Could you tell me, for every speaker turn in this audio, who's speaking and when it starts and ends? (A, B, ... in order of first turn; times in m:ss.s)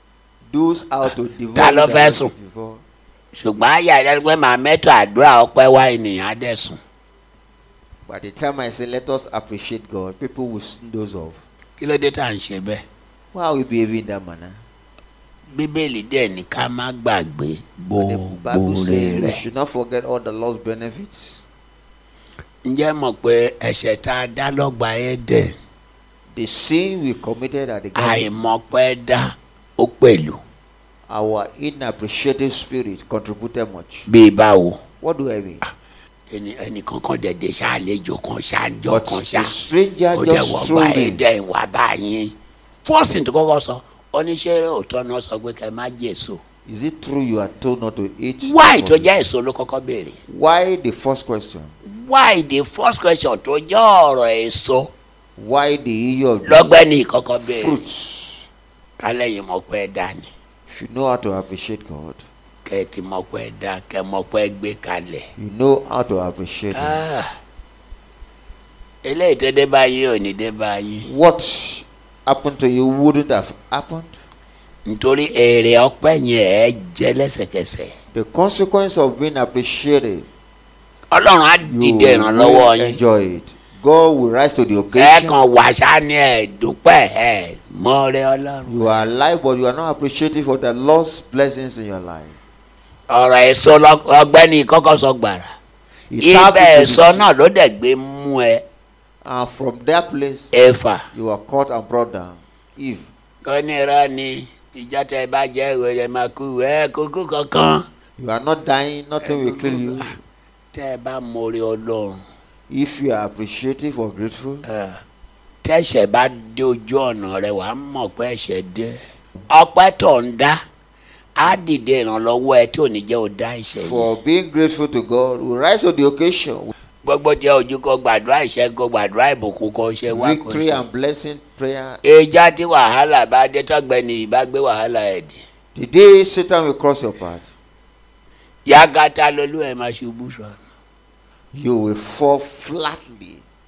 0:00.5-0:02.8 A
0:01.6-0:02.3 B
0:03.3-0:06.8 B
0:08.1-0:11.4 A
0:11.8-0:12.8 B
0:13.3-0:14.6 A
0:15.5-0:19.4 B
0:18.0-0:21.4 A
0:22.6-0:25.5 B
0:26.3-0:28.3 A
0:28.0-0:30.4 B
0:31.1-0:34.1 A
0:34.1-0:34.8 B
0:35.0-0:35.6 A
0:36.3-0:39.5 B
0:38.9-0:41.2 A
0:40.1-0:46.4 B
0:46.7-0:49.1 A
0:48.4-0:50.2 B
0:50.3-0:51.7 A
0:51.8-0:54.9 B
0:55.4-0:56.8 A
0:56.4-0:57.8 B
0:57.4-0:58.5 A
0:59.0-1:00.3 B
1:00.7-1:02.2 A
1:02.6-1:05.2 B
1:05.4-1:07.0 A
1:06.8-1:07.3 B
1:09.0-1:11.1 B
1:11.0-1:14.2 A
1:14.9-1:17.9 B
1:18.1-1:20.3 A
1:21.1-1:23.0 B
1:21.6-1:25.4 A
1:24.9-1:29.0 B
1:28.7-1:32.4 A
1:33.1-1:35.5 B
1:36.1-1:37.3 A
1:36.2-1:38.6 B
1:39.2-1:40.6 A
1:40.5-1:41.0 B
1:41.1-1:43.1 A
1:43.4-1:47.8 B
1:48.2-1:50.2 A
1:49.2-1:50.1 B
1:50.7-1:52.2 B
1:52.7-1:54.6 A
1:54.6-1:55.0 B
1:55.6-1:59.0 B
1:59.5-2:00.6 B
2:01.4-2:04.1 B
2:03.8-2:06.7 A
2:07.0-2:10.8 B
2:10.1-2:12.0 A
2:12.0-2:15.4 B
2:15.7-2:17.5 A
2:18.7-2:20.6 B
2:21.5-2:23.4 A